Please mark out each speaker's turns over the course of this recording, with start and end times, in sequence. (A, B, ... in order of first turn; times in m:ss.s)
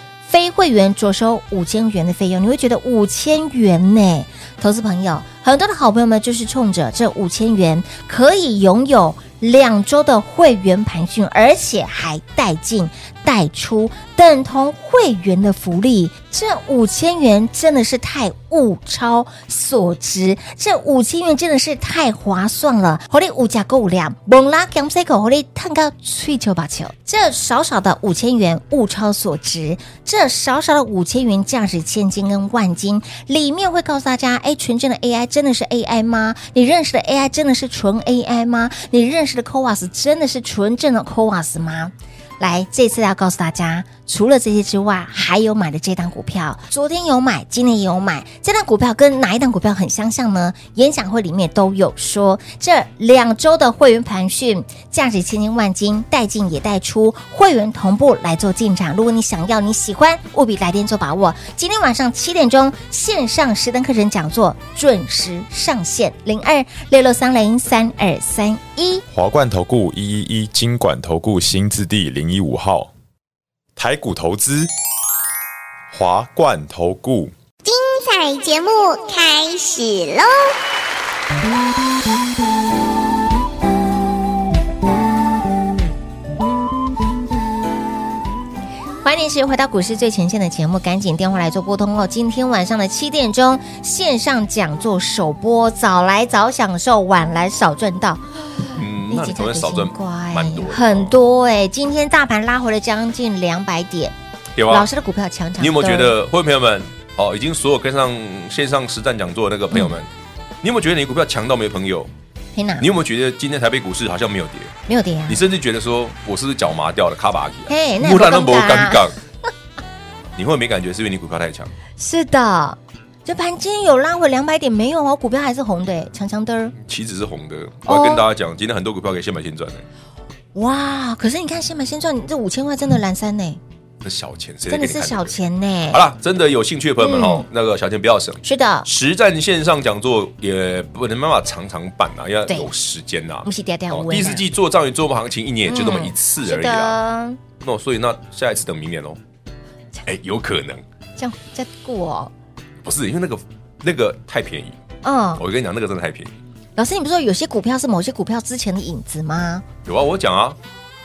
0:00.2-1:09.0 A
1:09.1-1:12.9 B
1:13.8-1:14.7 B
1:15.9-1:17.3 B
1:17.6-1:20.5 C
1:29.0-1:44.1 A
1:38.7-1:41.2 D
1:44.6-1:44.9 D
1:44.7-1:46.1 A
1:45.6-1:50.1 D
1:50.6-1:52.1 D
1:52.5-1:52.9 A
1:52.8-1:54.7 D
1:54.9-1:55.4 A
1:55.3-1:59.2 D
1:57.7-1:59.1 A
2:00.3-2:01.7 D
2:02.0-2:06.8 A
2:06.8-2:09.8 D
2:07.8-2:08.2 A
2:10.5-2:13.6 A
2:14.0-2:15.4 D
2:14.7-2:16.0 A
2:15.9-2:27.0 D
2:17.0-2:17.5 A
2:18.4-2:18.9 A
2:23.4-2:24.4 A
2:25.6-2:27.4 A
2:27.6-2:29.2 D
2:30.0-2:30.8 D
2:31.2-2:32.3 A
2:32.8-2:34.8 D
2:35.0-2:35.4 A
2:35.4-2:36.3 D
2:36.8-2:39.6 A
2:39.8-2:40.6 D